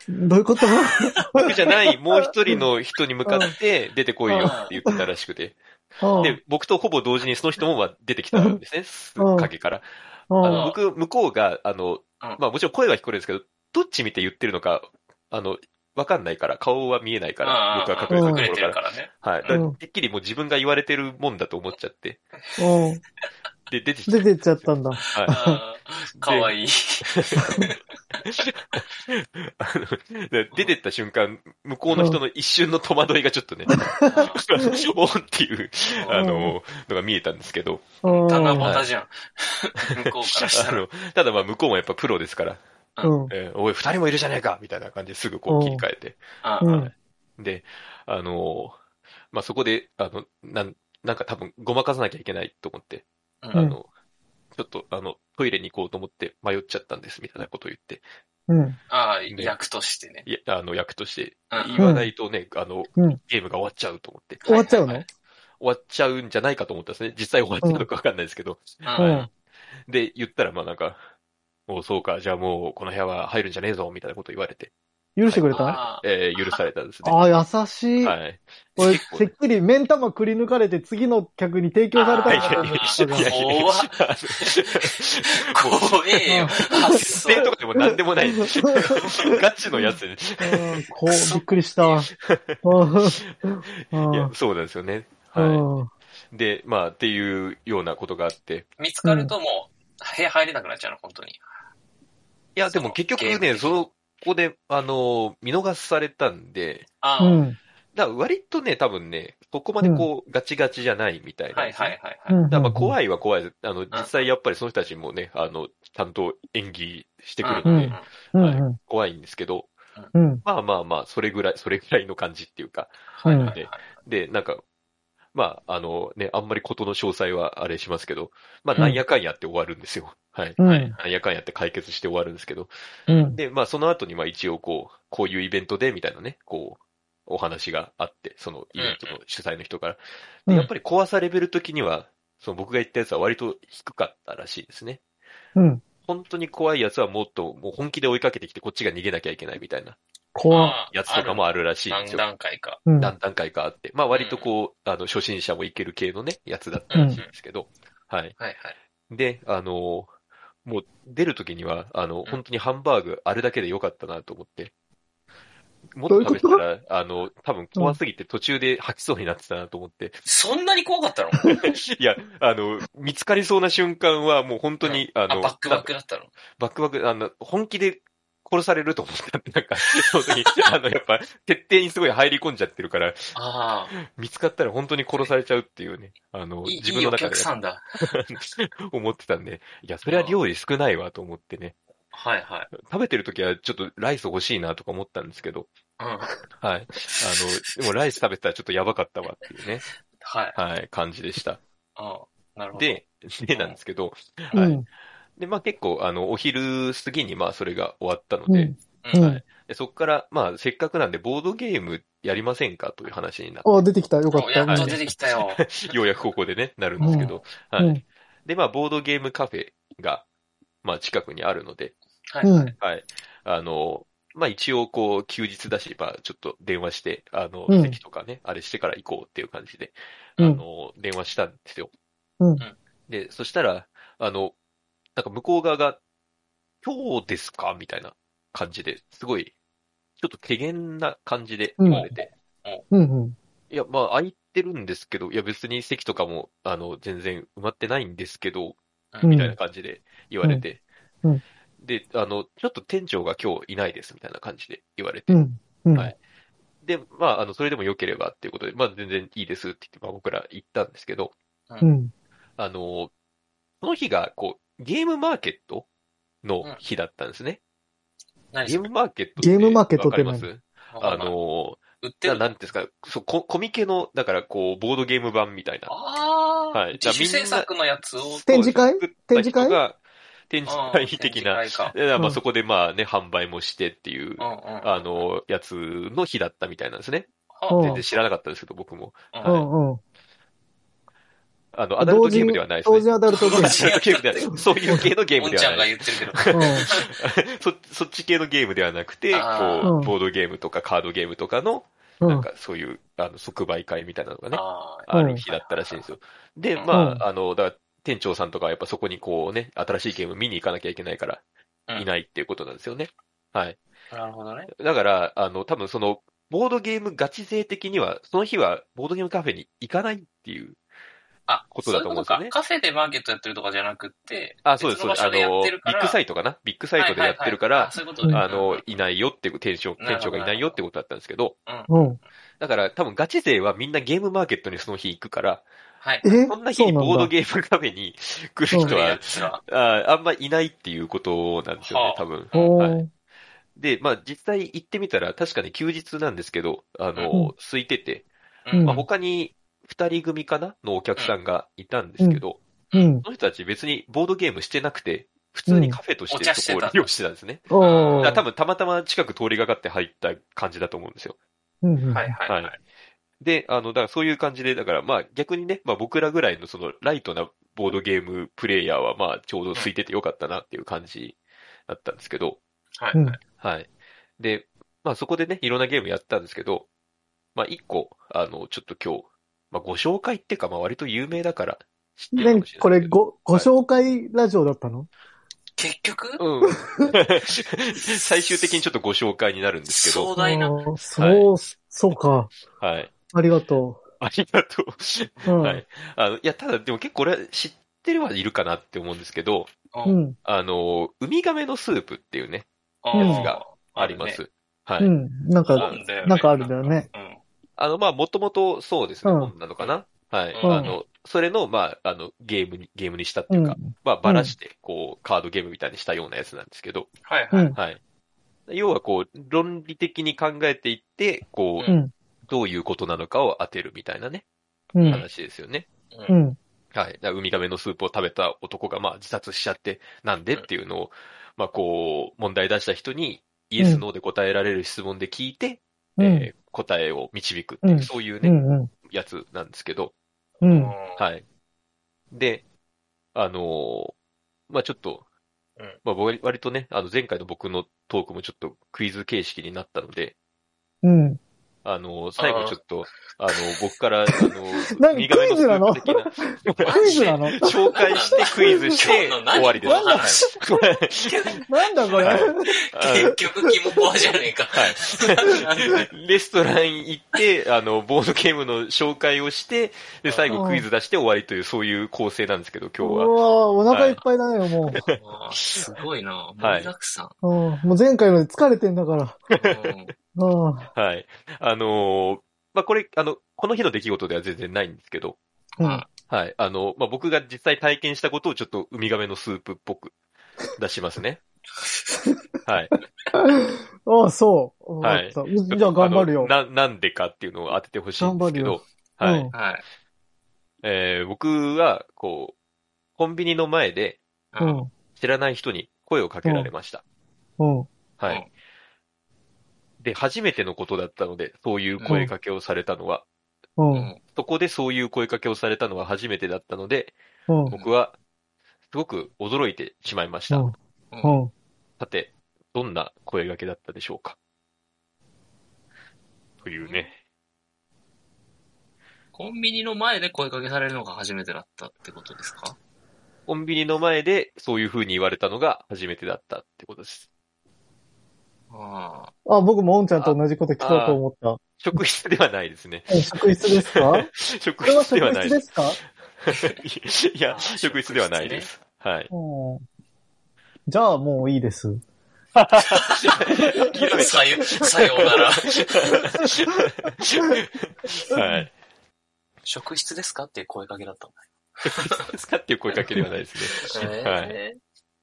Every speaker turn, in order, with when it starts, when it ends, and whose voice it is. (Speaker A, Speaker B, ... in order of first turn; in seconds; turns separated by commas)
Speaker A: 0.1-1.5, Speaker B: 0.7-1.1, Speaker C: 1.4-5.6, Speaker A: 3.3-3.5, Speaker A: 4.3-5.0, Speaker B: 4.4-4.7, Speaker A: 6.0-6.4, Speaker B: 6.1-6.3, Speaker C: 6.2-22.2, Speaker A: 8.3-8.6, Speaker A: 9.2-9.5, Speaker A: 10.3-10.7, Speaker B: 10.4-10.8, Speaker B: 17.4-19.6, Speaker A: 18.1-18.5, Speaker A: 19.5-19.8, Speaker A: 22.6-23.0, Speaker C: 23.7-24.6, Speaker A: 24.1-25.6, Speaker C: 25.1-25.4, Speaker B: 25.2-27.8, Speaker C: 26.2-26.5, Speaker C: 27.0-27.5, Speaker C: 28.2-33.8, Speaker A: 31.9-32.2, Speaker A: 33.8-34.1, Speaker B: 34.0-34.4, Speaker C: 34.4-37.9, Speaker A: 36.1-36.5, Speaker A: 38.0-38.7, Speaker B: 38.1-40.8, Speaker C: 38.6-38.9, Speaker C: 40.0-42.6, Speaker A: 43.0-43.3, Speaker C: 43.3-48.8, Speaker A: 45.5-45.9, Speaker B: 46.4-46.7, Speaker A: 46.6-46.9, Speaker C: 49.3-53.9, Speaker C: 54.5-58.0, Speaker A: 58.5-58.8, Speaker B: 58.9-60.3, Speaker C: 60.2-64.4, Speaker B: 61.5-61.8, Speaker A: 61.8-62.1, Speaker B: 64.4-65.0, Speaker A: 64.5-65.0, Speaker C: 65.6-69.3, Speaker B: 68.8-69.3, Speaker A: 69.0-69.3, Speaker C: 69.9-71.0, Speaker C: 71.7-74.7, Speaker A: 75.2-75.8, Speaker C: 75.2-77.2, Speaker B: 75.5-76.6, Speaker A: 77.0-78.2, Speaker C: 78.0-79.3, Speaker A: 78.8-83.4, Speaker B: 81.9-84.8, Speaker C: 82.2-90.7, Speaker B: 85.4-87.5, Speaker A: 86.3-87.0, Speaker A: 87.8-88.9, Speaker A: 89.8-92.1, Speaker B: 91.1-92.0, Speaker C: 92.2-93.3, Speaker A: 92.6-94.3, Speaker C: 93.9-95.6, Speaker A: 95.3-95.9, Speaker C: 96.3-98.7, Speaker B: 98.8-101.4, Speaker A: 99.0-99.3, Speaker C: 102.5-106.9, Speaker B: 102.7-103.8, Speaker B: 107.0-107.4, Speaker A: 107.2-107.6, Speaker C: 107.9-112.0, Speaker A: 109.8-110.1, Speaker B: 111.5-112.4, Speaker A: 112.3-112.9, Speaker C: 112.5-119.7, Speaker B: 113.9-114.2, Speaker B: 117.4-118.1, Speaker A: 117.6-118.8, Speaker A: 120.1-120.4, Speaker C: 120.4-124.6, Speaker B: 123.1-123.8, Speaker A: 123.2-123.5, Speaker C: 125.3-132.7, Speaker A: 130.6-130.9, Speaker B: 130.6-131.0, Speaker A: 133.1-133.4, Speaker C: 133.3-145.0, Speaker B: 138.8-139.2, Speaker A: 145.6-145.8, Speaker C: 146.0-150.0, Speaker A: 150.3-150.8, Speaker B: 150.5-152.8, Speaker C: 150.6-152.2, Speaker A: 152.8-153.1, Speaker C: 153.0-158.3, Speaker B: 154.1-154.5, Speaker B: 156.9-157.3, Speaker A: 156.9-157.2, Speaker B: 158.4-158.7, Speaker C: 159.1-160.1, Speaker C: 160.6-164.7, Speaker C: 165.9-170.2, Speaker A: 166.1-166.6, Speaker B: 170.2-171.5, Speaker C: 171.6-175.9, Speaker B: 174.8-176.3, Speaker C: 176.6-183.3, Speaker B: 183.3-183.9, Speaker C: 184.0-191.8, Speaker B: 186.7-187.8, Speaker B: 190.1-190.4, Speaker B: 192.1-192.7, Speaker C: 192.7-195.7, Speaker B: 196.0-196.3, Speaker C: 196.6-199.8, Speaker B: 200.2-200.6, Speaker C: 200.5-201.6, Speaker B: 201.9-203.0, Speaker C: 202.8-204.7, Speaker A: 204.5-204.8, Speaker C: 205.4-213.7, Speaker A: 208.5-209.4, Speaker B: 209.0-209.3, Speaker A: 213.6-215.0, Speaker B: 214.3-215.9, Speaker C: 214.7-220.2, Speaker B: 217.0-217.4, Speaker A: 217.0-218.0, Speaker C: 220.8-221.9, Speaker B: 222.3-222.8, Speaker A: 222.4-222.7, Speaker C: 222.8-231.9, Speaker A: 227.7-228.0, Speaker A: 232.4-232.6, Speaker C: 233.1-234.5, Speaker C: 235.2-236.0, Speaker C: 236.8-239.5, Speaker C: 240.2-242.3, Speaker A: 241.8-242.1, Speaker B: 241.9-242.8, Speaker A: 242.9-243.3, Speaker C: 243.7-250.8, Speaker A: 249.2-249.6, Speaker C: 251.8-255.4, Speaker A: 255.3-256.1, Speaker C: 256.8-261.3, Speaker A: 261.8-262.1, Speaker C: 262.6-263.1, Speaker C: 263.8-265.9, Speaker C: 266.4-267.6, Speaker B: 268.5-268.9, Speaker C: 268.6-275.9, Speaker A: 269.4-270.5, Speaker B: 270.9-271.3, Speaker B: 272.0-272.5, Speaker B: 275.9-278.5, Speaker C: 276.7-277.7, Speaker A: 278.4-279.8, Speaker C: 278.4-280.0, Speaker C: 280.5-289.7, Speaker B: 280.6-281.9, Speaker B: 284.4-285.0, Speaker B: 287.5-288.0, Speaker A: 287.7-288.0, Speaker B: 289.3-289.6, Speaker A: 289.4-290.0, Speaker C: 291.7-311.4, Speaker A: 292.0-293.9, Speaker B: 293.3-294.7, Speaker B: 295.4-297.1, Speaker A: 296.5-296.9, Speaker B: 299.3-299.9, Speaker A: 299.8-300.1, Speaker A: 302.2-302.5, Speaker B: 304.5-306.1, Speaker A: 305.1-305.4, Speaker A: 306.9-307.2, Speaker C: 311.9-313.8, Speaker B: 314.1-314.7, Speaker C: 314.7-320.8, Speaker B: 321.5-326.2, Speaker C: 321.7-322.5, Speaker C: 324.6-331.5, Speaker B: 327.0-328.8, Speaker B: 330.0-330.8, Speaker B: 331.6-331.9, Speaker A: 331.9-332.2, Speaker C: 332.6-335.6, Speaker B: 336.0-336.3, Speaker A: 336.2-337.3, Speaker C: 336.4-343.0, Speaker A: 338.7-338.9, Speaker B: 338.7-339.6, Speaker B: 341.8-342.8, Speaker A: 342.5-343.1, Speaker C: 343.8-348.2, Speaker B: 348.6-349.1, Speaker A: 348.7-349.0, Speaker C: 348.8-352.6, Speaker A: 352.2-353.2, Speaker C: 353.2-357.6, Speaker A: 355.7-356.0, Speaker B: 356.3-357.1, Speaker A: 357.7-358.4, Speaker B: 357.8-358.4, Speaker C: 358.2-361.4, Speaker A: 361.8-362.3, Speaker B: 362.1-362.7, Speaker C: 362.5-362.7, Speaker C: 363.4-371.4, Speaker C: 371.9-372.6, Speaker B: 373.0-373.4, Speaker C: 373.6-376.9, Speaker C: 377.5-383.7, Speaker A: 382.4-385.1, Speaker B: 385.8-386.4, Speaker C: 386.4-390.3, Speaker B: 389.9-390.8, Speaker A: 390.4-392.5, Speaker C: 391.2-391.5, Speaker C: 392.8-393.1, Speaker A: 393.3-394.0, Speaker C: 394.2-399.7, Speaker A: 395.4-395.8, Speaker B: 399.9-400.2, Speaker A: 400.1-400.4, Speaker C: 400.4-405.1, Speaker B: 403.0-404.4, Speaker A: 403.1-403.5, Speaker A: 405.0-407.1, Speaker B: 405.7-407.4, Speaker C: 405.8-406.1, Speaker C: 407.8-417.1, Speaker A: 409.2-409.5, Speaker B: 410.5-410.9, Speaker A: 410.6-410.9, Speaker A: 413.5-414.5, Speaker B: 417.2-417.8, Speaker A: 417.5-417.8, Speaker C: 417.7-418.0, Speaker C: 418.7-421.9, Speaker A: 421.9-422.1, Speaker C: 422.5-424.4, Speaker A: 424.9-425.2, Speaker B: 425.0-425.3, Speaker C: 425.1-425.9, Speaker A: 426.3-426.6, Speaker C: 426.9-440.1, Speaker A: 433.8-434.0, Speaker A: 436.2-436.5, Speaker A: 437.8-438.9, Speaker A: 440.6-440.9, Speaker B: 440.6-441.2, Speaker C: 441.2-441.4, Speaker C: 442.3-442.6, Speaker C: 443.3-444.1, Speaker C: 444.7-445.2, Speaker C: 446.0-450.3, Speaker A: 451.0-451.4, Speaker C: 451.8-461.4, Speaker B: 452.4-452.8, Speaker A: 454.9-459.0, Speaker B: 456.8-460.6, Speaker A: 459.8-460.6, Speaker B: 461.2-466.1, Speaker A: 461.6-464.0, Speaker C: 462.2-463.4, Speaker C: 464.7-473.3, Speaker B: 470.2-470.6, Speaker A: 470.5-470.9, Speaker A: 473.0-475.0, Speaker C: 473.9-474.2, Speaker C: 474.9-475.8, Speaker B: 475.1-477.3, Speaker C: 476.6-476.9, Speaker A: 477.4-479.4, Speaker C: 479.5-479.9, Speaker B: 479.6-480.1, Speaker A: 480.3-480.9, Speaker C: 480.9-485.4, Speaker B: 485.8-486.1, Speaker C: 486.3-490.1, Speaker C: 490.8-491.4, Speaker C: 492.6-492.9, Speaker A: 493.3-496.5, Speaker C: 495.0-499.5, Speaker A: 498.2-499.5, Speaker B: 499.5-499.8, Speaker C: 500.8-502.5, Speaker C: 503.2-504.2, Speaker B: 504.5-504.8, Speaker A: 504.6-504.9, Speaker C: 505.1-507.0, Speaker A: 506.4-506.7, Speaker A: 507.6-507.9, Speaker C: 508.2-508.4, Speaker C: 510.0-513.2, Speaker B: 512.0-512.2, Speaker A: 513.8-514.1, Speaker B: 513.9-514.2, Speaker C: 514.3-517.1, Speaker A: 517.5-517.7, Speaker C: 517.7-518.1, Speaker C: 518.9-520.7, Speaker A: 520.5-521.5, Speaker B: 521.1-521.4, Speaker C: 522.0-524.4, Speaker C: 526.6-527.2, Speaker B: 526.8-527.1, Speaker B: 529.3-532.8, Speaker C: 533.5-537.3, Speaker B: 538.7-539.3, Speaker A: 539.5-542.0, Speaker C: 540.2-541.2, Speaker C: 541.8-545.6, Speaker A: 543.1-544.3, Speaker A: 544.8-546.0, Speaker C: 546.4-549.3, Speaker B: 547.5-548.7, Speaker A: 549.3-549.8, Speaker A: 550.9-552.0, Speaker C: 552.5-558.7, Speaker B: 552.9-553.2, Speaker B: 553.9-556.1, Speaker A: 558.3-558.6, Speaker B: 559.6-562.3, Speaker C: 561.9-564.5, Speaker B: 563.8-564.8